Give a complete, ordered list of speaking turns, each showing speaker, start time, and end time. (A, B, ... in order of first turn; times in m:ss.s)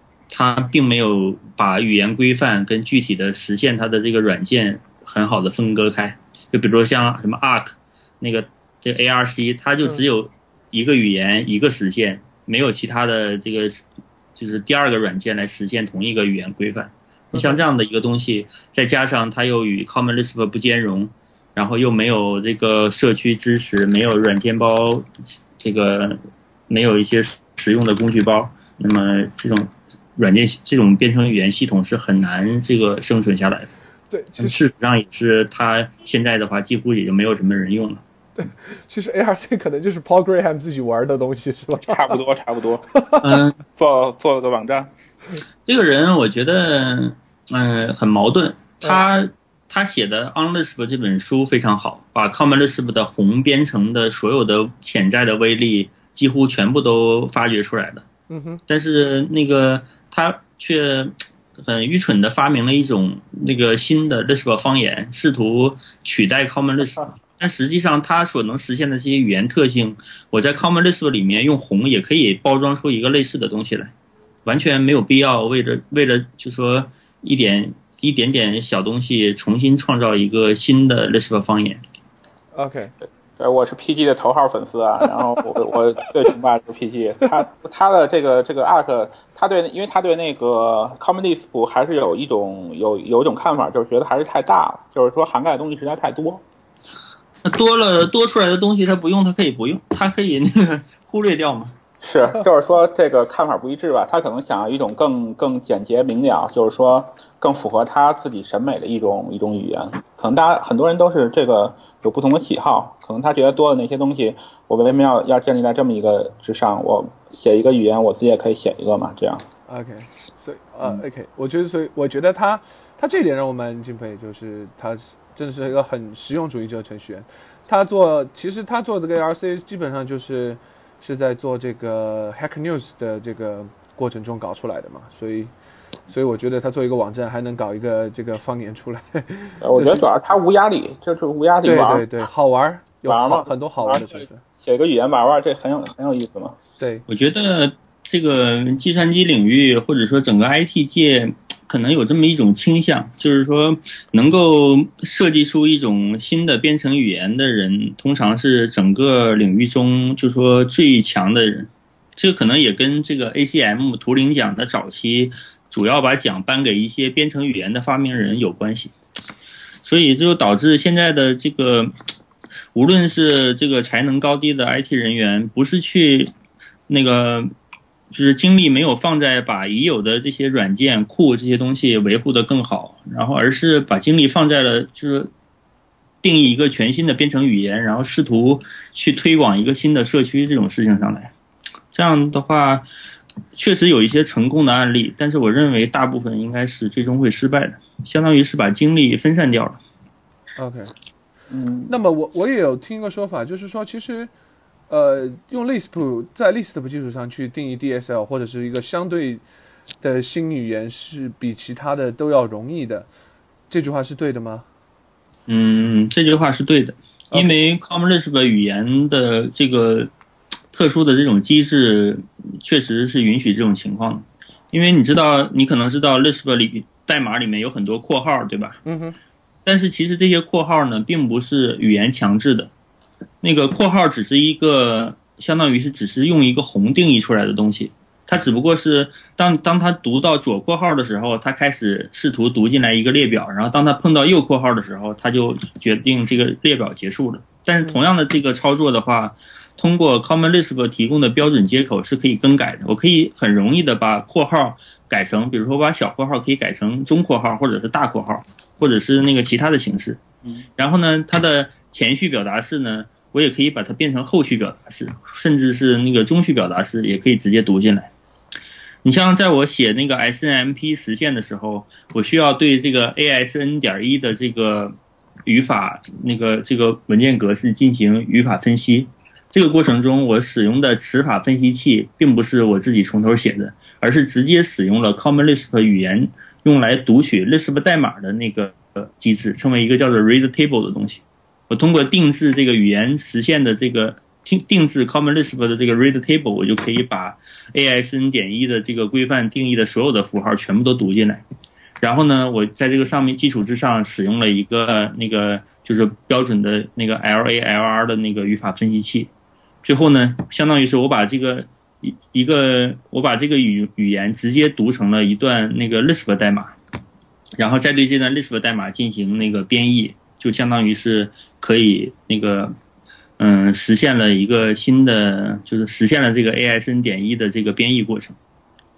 0:00.3-0:33.7 A
0:34.1-0:34.6 B
0:34.4-0:38.0 A
0:38.4-0:42.2 B
0:41.8-0:42.9 C
0:42.9-0:43.2 B
0:43.2-0:43.6 A
0:43.7-0:44.9 C
0:45.6-0:58.0 A
0:58.3-0:58.6 B
0:58.7-1:13.9 A
1:14.4-1:21.8 A
1:22.5-1:22.9 B
1:23.4-1:36.4 C
1:37.4-1:41.7 A
1:42.0-1:59.4 C
1:59.7-2:15.5 B
2:16.1-2:20.0 B
2:19.6-2:22.0 C
2:21.6-2:24.4 B
2:23.1-2:26.6 C
2:26.8-2:27.0 B
2:27.1-2:48.9 A
2:49.8-2:51.9 A
2:52.7-2:56.3 A
2:56.9-2:57.5 A
2:58.1-3:05.3 A
3:06.2-3:11.3 A
3:11.9-3:12.8 A
3:13.6-3:19.8 A
3:20.6-3:20.9 B
3:21.5-3:21.9 C
3:21.9-3:24.3 B
3:24.9-3:29.4 B
3:30.0-3:33.1 B
3:33.7-3:34.6 B
3:35.5-3:40.1 A
3:40.7-3:48.8 A
3:48.8-3:49.2 B
3:49.6-3:52.7 A
3:53.4-4:20.2 A
4:20.8-4:28.1 A
4:29.0-5:01.4 A
5:02.0-5:09.3 A
5:09.8-5:16.7 A
5:17.6-5:22.7 A
5:23.4-5:28.4 A